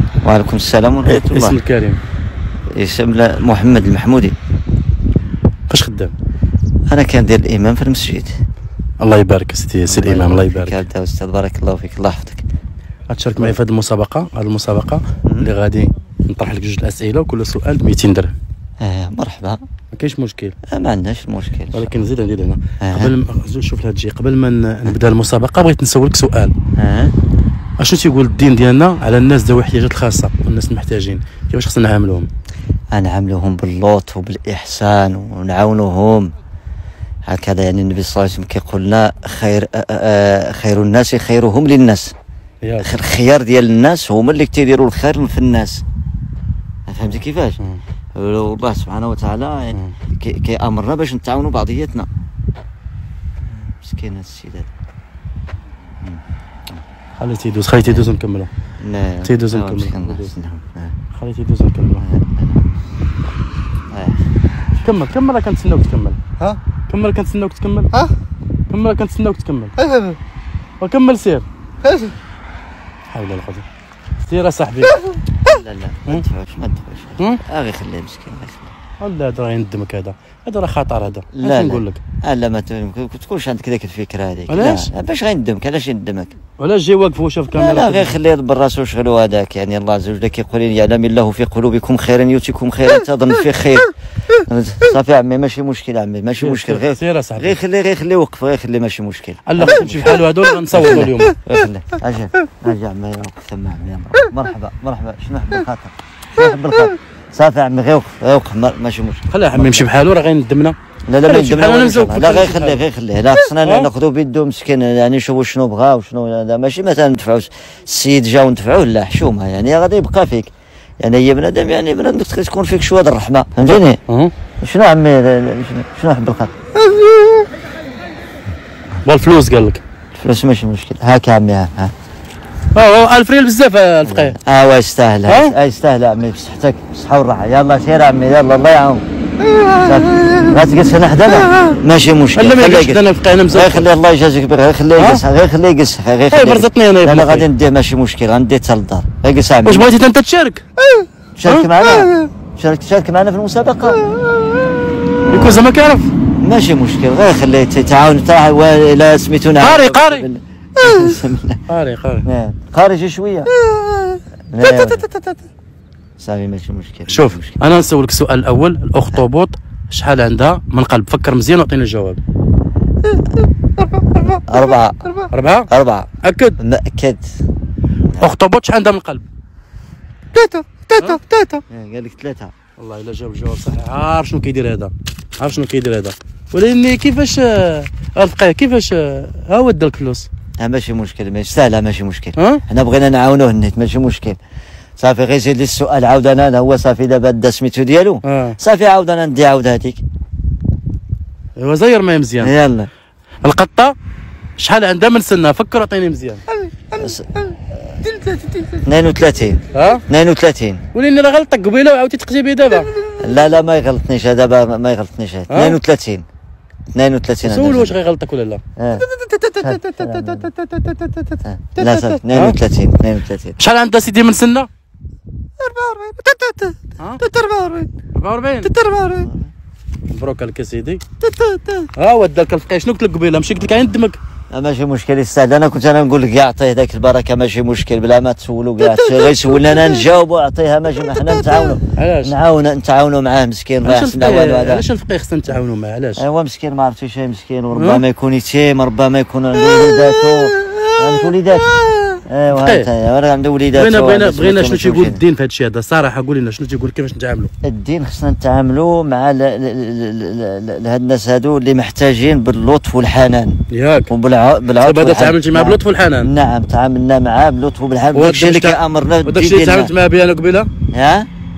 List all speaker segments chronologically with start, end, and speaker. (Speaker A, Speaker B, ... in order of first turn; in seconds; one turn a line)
Speaker A: 0.2-1.6
Speaker B: 1.1-2.0
Speaker A: 2.7-4.3
Speaker B: 5.7-6.2
Speaker A: 6.9-8.3
Speaker B: 9.0-10.8
Speaker A: 9.9-12.4
Speaker B: 13.1-18.3
Speaker A: 15.2-15.5
Speaker A: 18.8-19.6
Speaker B: 19.9-20.6
Speaker A: 20.7-21.9
Speaker B: 21.7-26.5
Speaker A: 22.8-23.1
Speaker A: 26.8-27.1
Speaker B: 27.8-32.3
Speaker A: 32.9-36.3
Speaker A: 37.3-42.1
Speaker B: 42.6-43.0
Speaker A: 42.8-45.8
Speaker A: 46.9-47.6
Speaker A: 48.1-52.1
Speaker A: 53.4-54.7
Speaker A: 56.0-56.8
Speaker B: 57.2-58.5
Speaker A: 57.8-58.1
Speaker A: 58.8-60.9
Speaker B: 59.2-60.3
Speaker B: 61.1-62.0
Speaker A: 62.0-62.7
Speaker A: 63.9-64.2
Speaker B: 64.8-66.2
Speaker B: 66.9-67.9
Speaker B: 68.7-69.7
Speaker C: 69.8-70.2
Speaker B: 70.8-71.5
Speaker C: 71.8-72.1
Speaker B: 73.1-73.7
Speaker B: 74.2-75.0
Speaker C: 74.8-75.6
Speaker A: 75.4-78.7
Speaker B: 79.0-82.0
Speaker A: 81.3-86.3
Speaker B: 84.5-84.9
Speaker B: 86.6-88.2
Speaker A: 87.5-109.9
Speaker B: 96.4-97.6
Speaker B: 99.5-101.3
Speaker C: 106.4-106.9
Speaker B: 109.3-110.8
Speaker A: 111.1-124.0
Speaker B: 111.3-112.8
Speaker B: 113.6-113.9
Speaker B: 123.6-124.3
Speaker A: 124.6-126.5
Speaker C: 126.8-127.5
Speaker B: 129.0-129.8
Speaker A: 130.2-131.9
Speaker B: 132.8-134.4
Speaker A: 134.1-139.0
Speaker B: 135.3-135.6
Speaker C: 139.4-140.6
Speaker A: 139.8-149.9
Speaker C: 141.3-141.6
Speaker B: 142.3-143.9
Speaker B: 145.0-145.2
Speaker B: 146.3-147.5
Speaker B: 149.7-150.6
Speaker C: 150.8-151.1
Speaker A: 151.4-154.0
Speaker C: 151.8-152.3
Speaker C: 153.9-154.6
Speaker A: 155.2-155.7
Speaker B: 155.3-156.1
Speaker A: 156.4-161.6
Speaker B: 159.6-160.3
Speaker C: 160.8-161.2
Speaker B: 161.7-162.2
Speaker A: 162.3-163.5
Speaker C: 163.5-165.5
Speaker A: 164.5-165.1
Speaker A: 166.2-167.7
Speaker B: 167.1-172.2
Speaker C: 173.0-175.3
Speaker A: 174.5-175.2
Speaker B: 175.3-175.7
Speaker A: 175.7-177.3
Speaker B: 176.2-176.6
Speaker B: 178.2-179.3
Speaker C: 180.3-181.6
Speaker A: 181.7-182.5
Speaker B: 182.8-190.3
Speaker A: 190.6-194.4
Speaker B: 192.4-192.6
Speaker A: 195.0-200.0
Speaker B: 198.2-198.6
Speaker B: 201.6-202.5
Speaker A: 202.4-202.9
Speaker B: 203.4-203.9
Speaker B: 204.6-206.4
Speaker C: 206.5-208.9
Speaker A: 207.0-207.3
Speaker A: 208.8-210.8
Speaker B: 209.7-210.0
Speaker B: 210.9-212.9
Speaker C: 212.7-213.4
Speaker A: 213.2-216.3
Speaker B: 215.5-215.8
Speaker A: 216.9-218.0
Speaker B: 217.4-218.6
Speaker A: 218.8-219.1
Speaker C: 219.0-222.2
Speaker A: 219.6-220.5
Speaker A: 221.4-223.6
Speaker B: 222.3-222.6
Speaker B: 223.6-224.7
Speaker C: 225.6-227.9
Speaker B: 228.2-228.7
Speaker C: 228.6-229.3
Speaker A: 229.2-229.5
Speaker B: 230.1-231.0
Speaker C: 231.2-231.9
Speaker B: 232.0-234.2
Speaker A: 234.5-244.9
Speaker C: 238.8-240.1
Speaker C: 241.0-241.8
Speaker B: 242.0-242.3
Speaker B: 243.8-246.2
Speaker A: 246.2-251.7
Speaker B: 247.7-248.0
Speaker C: 249.6-252.2
Speaker A: 252.3-255.2
Speaker B: 252.5-252.9
Speaker B: 253.7-257.5
Speaker A: 257.6-269.9
Speaker B: 263.7-264.1
Speaker B: 264.8-266.3
Speaker B: 268.1-270.7
Speaker A: 270.9-271.3